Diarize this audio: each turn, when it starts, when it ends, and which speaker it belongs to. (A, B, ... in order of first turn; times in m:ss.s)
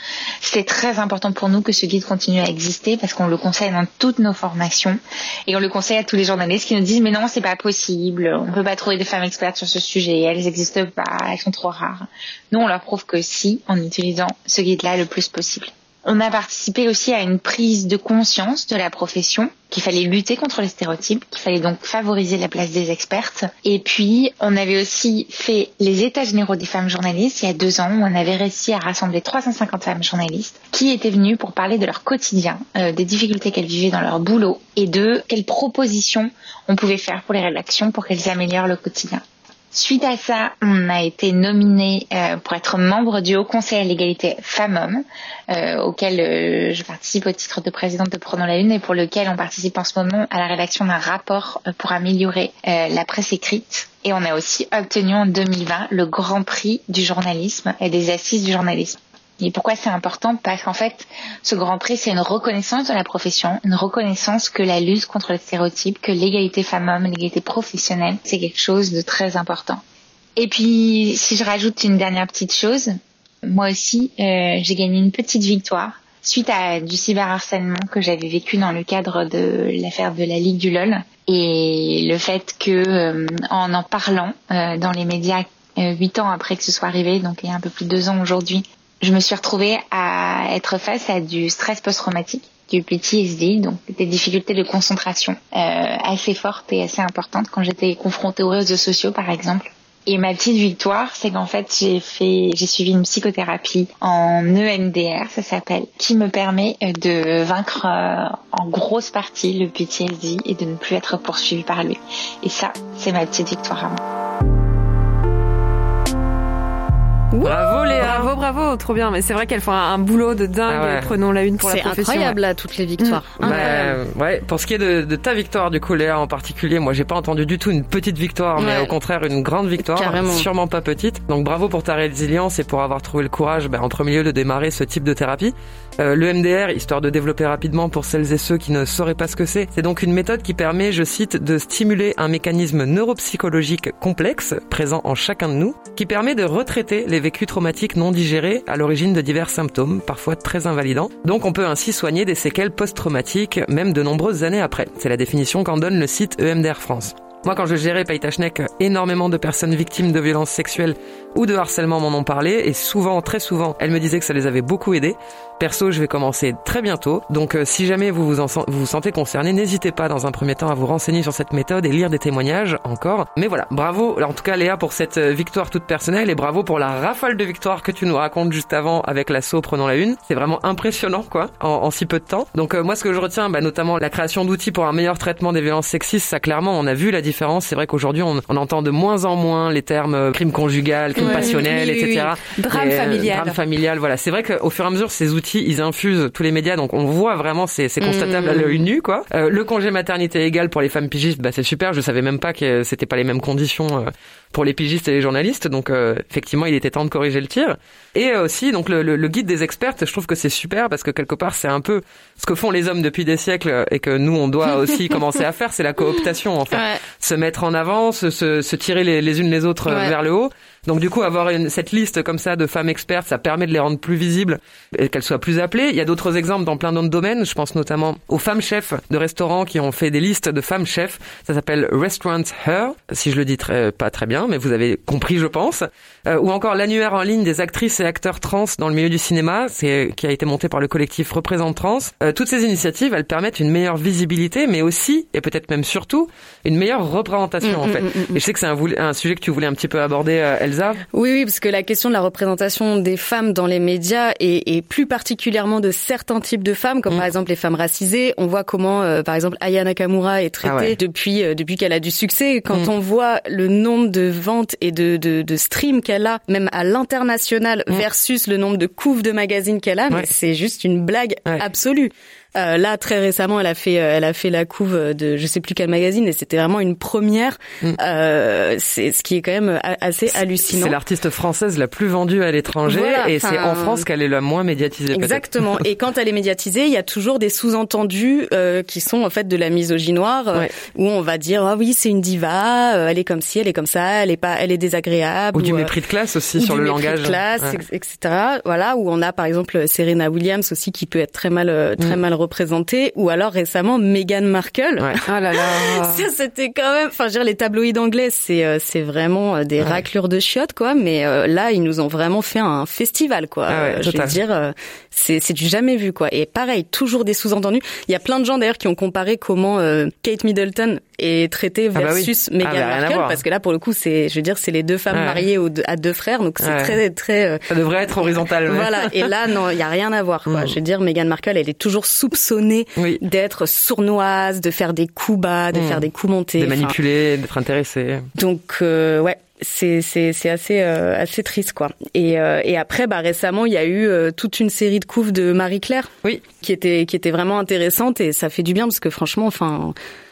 0:00.4-1:09.8 A
1:10.4-1:12.9 A
1:13.5-1:54.0 A
1:57.3-2:02.4 B
1:57.4-1:58.3 C
2:00.7-2:01.1 C
2:01.6-2:04.0 D
2:03.0-2:03.7 B
2:03.4-4:11.0 C
2:08.6-2:08.9 D
2:09.8-2:10.5 D
3:11.2-3:12.3 D
3:11.2-3:11.5 B
3:12.5-3:13.6 B
3:18.0-3:18.8 D
3:36.7-3:37.0 D
3:39.9-3:40.1 D
4:07.6-4:08.4 D
4:11.1-4:41.0 D
4:20.6-4:20.9 C
4:40.3-4:45.8 C
4:42.8-4:44.0 D
4:45.1-4:55.9 D
4:55.5-4:57.8 C
4:56.6-5:05.2 D
5:05.0-5:06.2 C
5:05.8-5:27.6 D
5:13.7-5:14.4 C
5:21.9-5:23.4 C
5:25.1-5:25.4 C
5:26.6-5:27.0 C
5:27.7-5:29.3 C
5:28.7-5:36.9 D
5:30.5-5:30.8 C
5:33.0-5:33.2 C
5:35.7-5:36.0 C
5:36.6-5:38.3 C
5:38.4-5:49.9 D